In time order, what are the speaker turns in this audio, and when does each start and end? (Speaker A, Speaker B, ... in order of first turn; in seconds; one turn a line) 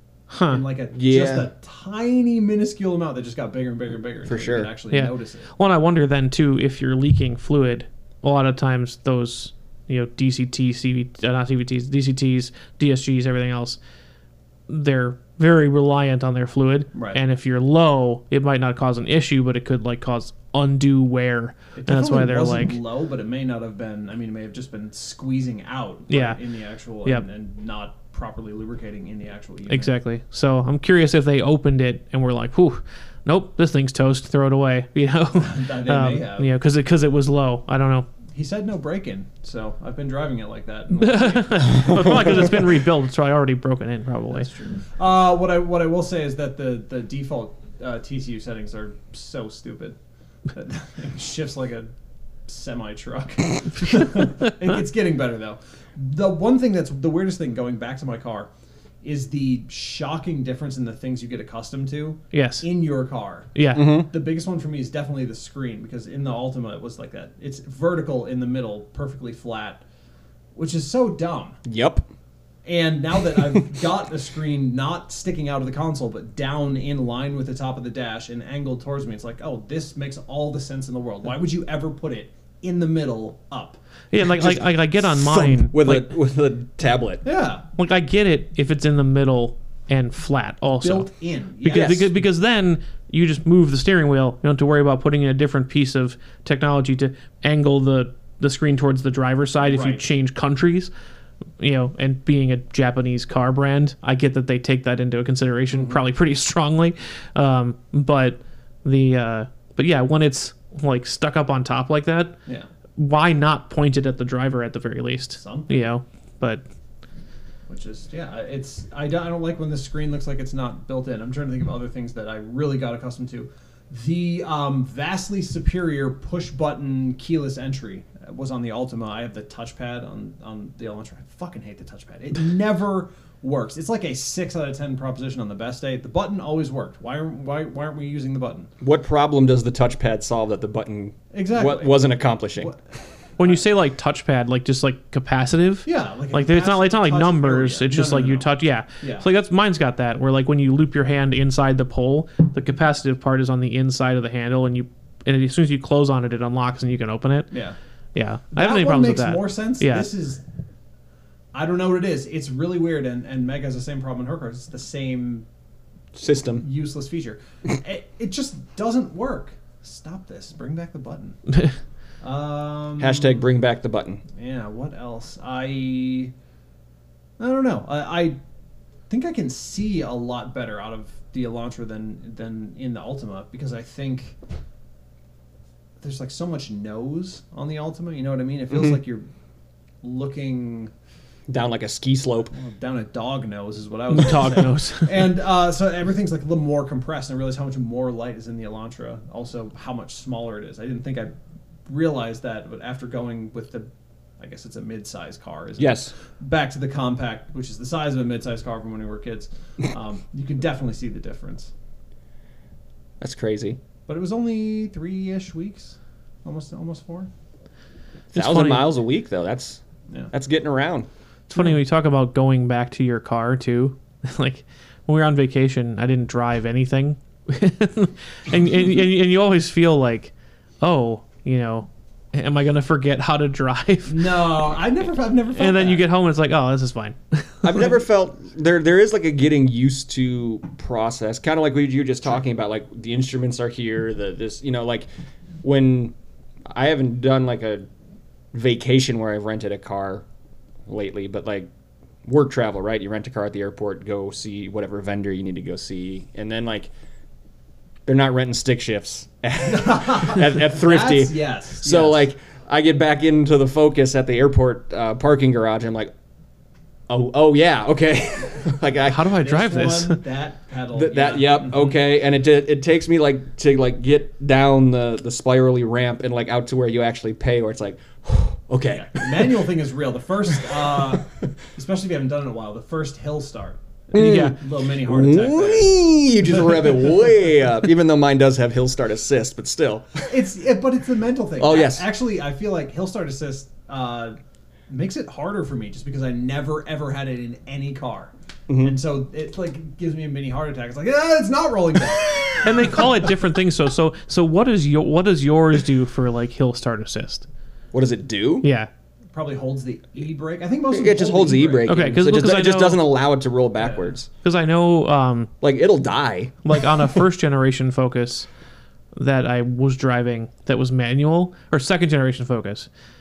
Speaker A: 0.3-0.6
Speaker B: 0.5-5.5
Speaker C: 0.9-1.5
Speaker C: 4.2-4.7
Speaker A: 4.9-13.8
Speaker A: 14.7-22.8
Speaker B: 16.9-17.2
Speaker B: 21.7-29.9
Speaker A: 26.1-26.4
Speaker A: 29.7-38.1
Speaker B: 35.3-36.5
Speaker B: 38.3-42.6
Speaker A: 41.0-44.5
Speaker B: 44.3-50.0
Speaker B: 50.5-51.9
Speaker B: 52.5-58.5
Speaker B: 59.0-69.8
Speaker A: 62.3-62.6
Speaker A: 63.5-63.9
Speaker C: 63.7-64.1
Speaker B: 70.5-71.6
Speaker C: 71.6-72.1
Speaker B: 72.6-83.8
Speaker A: 84.1-86.1
Speaker C: 84.3-87.2
Speaker B: 87.2-87.6
Speaker A: 87.8-91.1
Speaker B: 90.8-92.0
Speaker A: 91.6-100.9
Speaker C: 91.7-92.1
Speaker B: 99.6-100.0
Speaker A: 101.6-112.3
Speaker B: 105.7-106.0
Speaker A: 113.0-116.6
Speaker B: 115.4-115.8
Speaker B: 117.7-138.7
Speaker C: 138.8-142.7
Speaker B: 141.3-142.8
Speaker A: 143.4-157.5
Speaker B: 145.8-149.3
Speaker B: 157.5-157.8
Speaker A: 158.1-160.1
Speaker B: 158.5-160.4
Speaker B: 161.5-165.4
Speaker C: 166.1-166.6
Speaker B: 166.6-171.4
Speaker B: 172.2-173.4
Speaker C: 173.0-174.2
Speaker B: 174.3-176.3
Speaker B: 177.4-178.4
Speaker B: 179.1-184.3
Speaker B: 186.0-189.2
Speaker B: 190.0-190.9
Speaker C: 191.5-192.5
Speaker B: 192.5-201.3
Speaker A: 194.1-195.2
Speaker B: 201.9-203.9
Speaker B: 204.4-211.7
Speaker C: 205.8-206.1
Speaker C: 213.2-213.8
Speaker B: 214.1-217.3
Speaker A: 218.3-218.9
Speaker C: 218.3-219.8
Speaker C: 220.3-221.1
Speaker A: 221.5-234.3
Speaker B: 234.1-236.1
Speaker A: 235.5-237.7
Speaker C: 237.6-245.1
Speaker C: 245.6-246.1
Speaker C: 246.7-247.8
Speaker C: 248.5-250.2
Speaker C: 250.9-251.7
Speaker C: 252.2-256.9
Speaker C: 258.1-266.1
Speaker B: 259.6-262.3
Speaker C: 267.1-269.2
Speaker A: 269.0-270.2
Speaker B: 269.4-271.8
Speaker C: 270.9-279.6
Speaker B: 278.9-287.5
Speaker C: 284.1-290.3
Speaker A: 284.1-284.6
Speaker B: 290.3-294.4
Speaker C: 291.6-292.0
Speaker B: 294.9-303.3
Speaker C: 298.7-298.9
Speaker A: 302.6-307.4
Speaker C: 307.9-308.6
Speaker A: 308.6-308.9
Speaker B: 309.3-311.9
Speaker C: 310.9-314.3
Speaker A: 311.9-313.0
Speaker B: 313.8-314.1
Speaker A: 314.4-315.5
Speaker C: 315.6-316.6
Speaker A: 316.6-318.5
Speaker A: 319.1-322.9